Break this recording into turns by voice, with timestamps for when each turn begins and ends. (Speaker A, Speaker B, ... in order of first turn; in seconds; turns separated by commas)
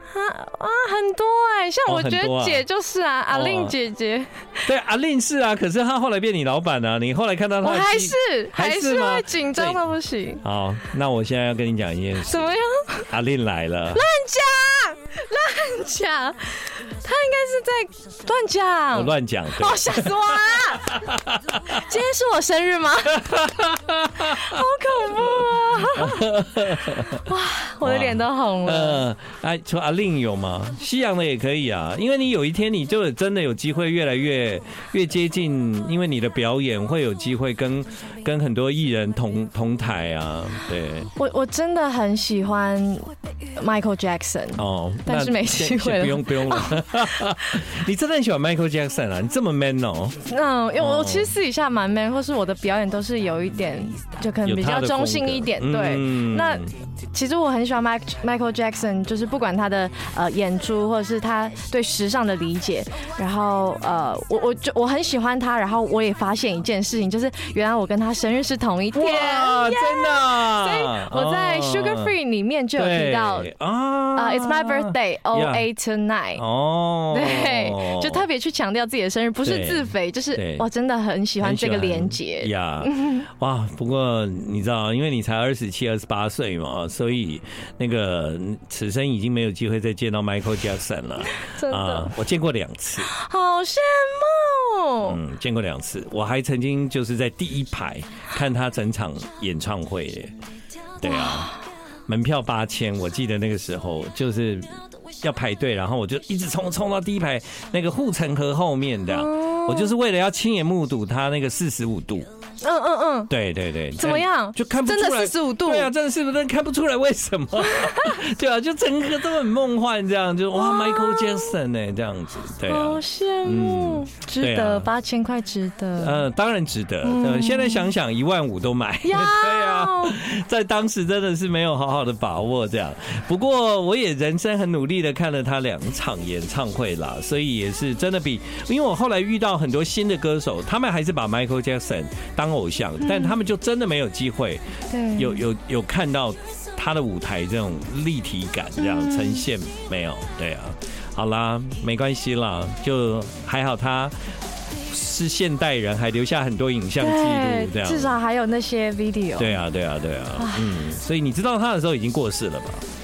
Speaker A: 0.1-4.7, Speaker B: 1.9-2.6, Speaker B: 3.3-3.8, Speaker B: 4.7-9.8, Speaker A: 7.6-10.4, Speaker B: 10.4-14.0, Speaker A: 12.3-13.1, Speaker A: 13.9-21.1, Speaker B: 18.9-21.8, Speaker A: 21.7-23.4, Speaker B: 23.1-24.5, Speaker A: 24.2-29.1, Speaker B: 25.9-27.2, Speaker B: 27.8-41.1, Speaker A: 41.2-47.5, Speaker B: 44.6-50.2, Speaker A: 50.2-73.5, Speaker B: 50.8-51.3, Speaker B: 54.5-56.7, Speaker B: 68.9-72.1, Speaker B: 72.8-75.7, Speaker A: 74.2-76.4, Speaker B: 76.4-78.2, Speaker A: 77.1-83.2, Speaker B: 79.4-80.7, Speaker B: 81.4-93.1, Speaker A: 91.4-92.1, Speaker A: 93.1-95.2, Speaker B: 95.0-100.3, Speaker B: 101.0-101.5, Speaker A: 101.0-101.6, Speaker B: 102.1-112.3, Speaker A: 109.1-109.9, Speaker A: 112.6-113.3, Speaker B: 113.3-124.9, Speaker A: 114.0-115.9, Speaker A: 117.6-118.2, Speaker A: 120.5-121.6, Speaker A: 122.7-126.3, Speaker B: 126.0-144.6, Speaker A: 127.0-127.9, Speaker A: 129.0-130.2, Speaker A: 143.0-143.4, Speaker A: 144.9-145.4, Speaker B: 145.2-154.2, Speaker A: 148.8-149.5, Speaker B: 154.9-158.1, Speaker A: 157.0-159.6, Speaker B: 159.4-162.8, Speaker A: 160.4-160.8